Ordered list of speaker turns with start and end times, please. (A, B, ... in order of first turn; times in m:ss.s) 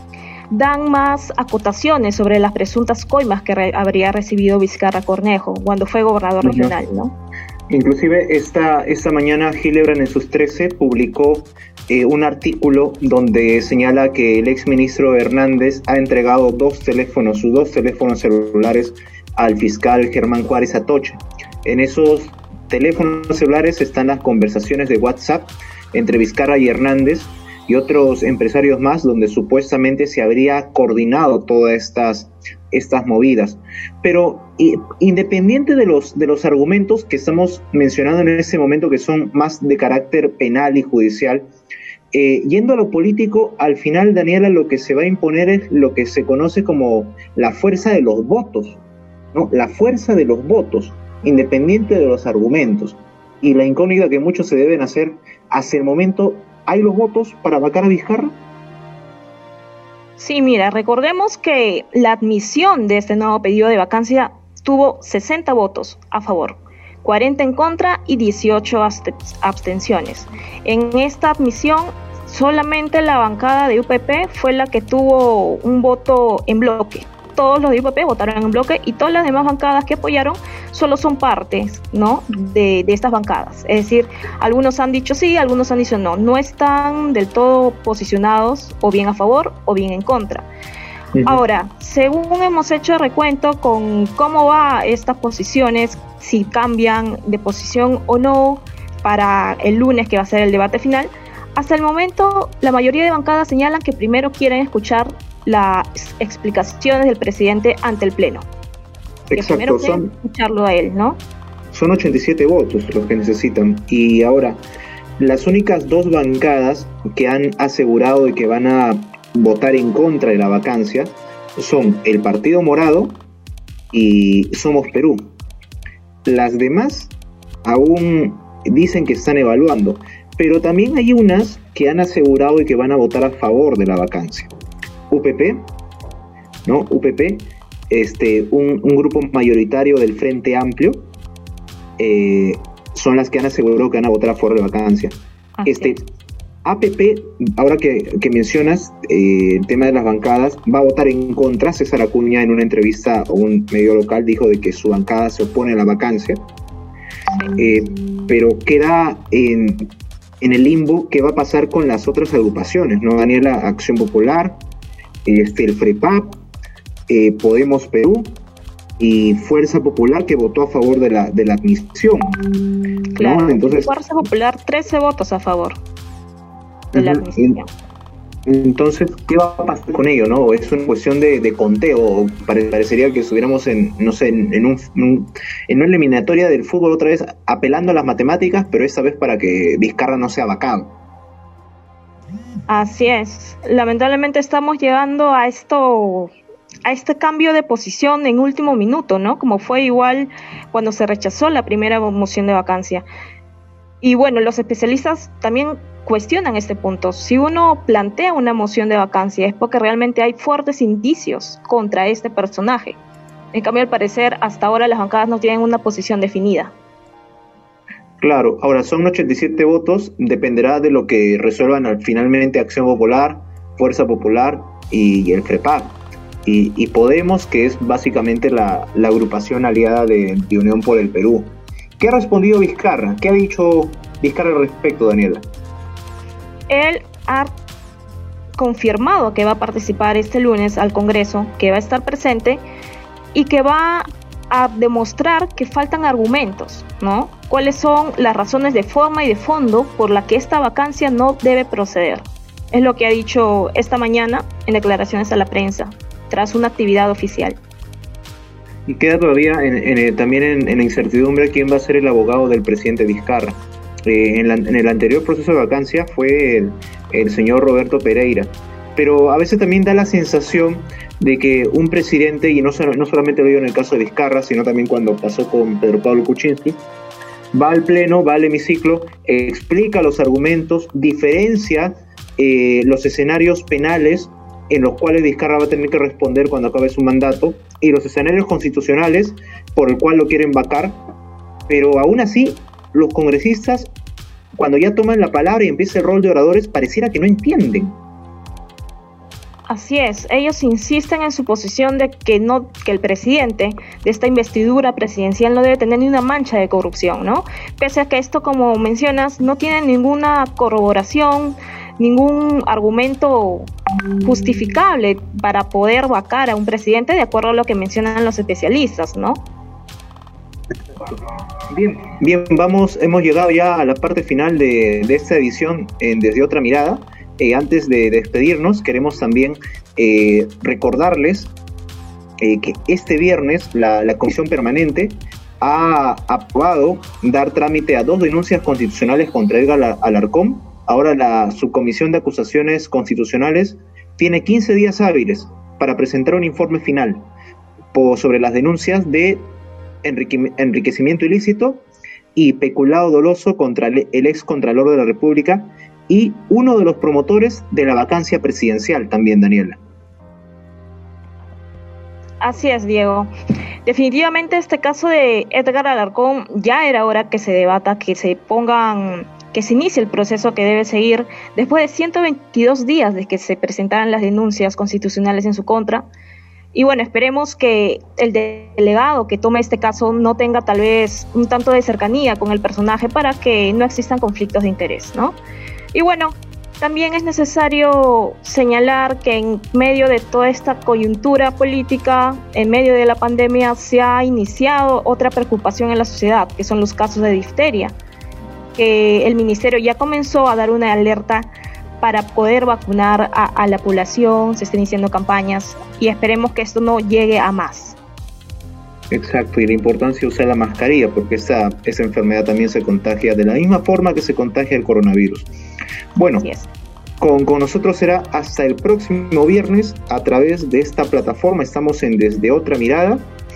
0:00.5-0:07.1 A
0:06.4-0:06.8 B
0:07.7-0:41.5 B
0:42.1-0:48.8 B
0:49.3-0:58.3 B
1:00.2-1:30.5 A
1:31.1-1:31.4 B
1:31.2-1:48.5 A
1:49.3-1:50.1 B
1:49.3-1:51.2 A
1:51.7-1:54.6 B
1:55.2-2:03.2 B
2:03.9-2:05.3 B
2:06.2-2:07.1 B
2:07.6-2:14.5 B
2:15.1-2:15.7 B
2:16.6-2:21.0 B
2:22.0-2:26.0 B
2:25.6-2:26.0 A
2:26.6-2:36.4 B
2:37.5-2:44.6 B
2:45.2-2:46.4 B
2:47.1-2:48.4 B
2:49.0-2:52.4 B
2:53.2-2:55.8 A
2:53.2-2:53.9 B
2:56.9-2:57.6 B
2:56.9-2:57.7 A
2:58.5-3:10.9 B
3:12.7-3:16.3 A
3:16.8-3:23.0 A
3:24.0-3:33.0 A
3:33.5-3:36.7 A
3:38.2-3:55.4 B
3:56.7-3:57.5 A
3:58.6-4:02.6 A
4:03.3-4:17.6 A
4:18.9-4:36.8 B
4:37.5-4:51.0 B
4:51.7-4:53.9 B
4:54.6-4:58.0 B
4:59.7-5:13.7 A
5:14.2-5:19.4 A
5:21.7-5:31.5 B
5:32.4-5:47.2 B
5:47.9-5:49.5 B
5:50.0-5:59.8 B
6:02.4-6:03.3 A
6:03.8-6:16.1 A
6:16.7-6:25.4 A
6:25.9-6:38.0 A
6:38.8-6:48.0 A
6:49.1-6:55.5 B
6:56.2-6:56.5 B
6:56.4-6:56.7 A
6:57.2-7:03.2 B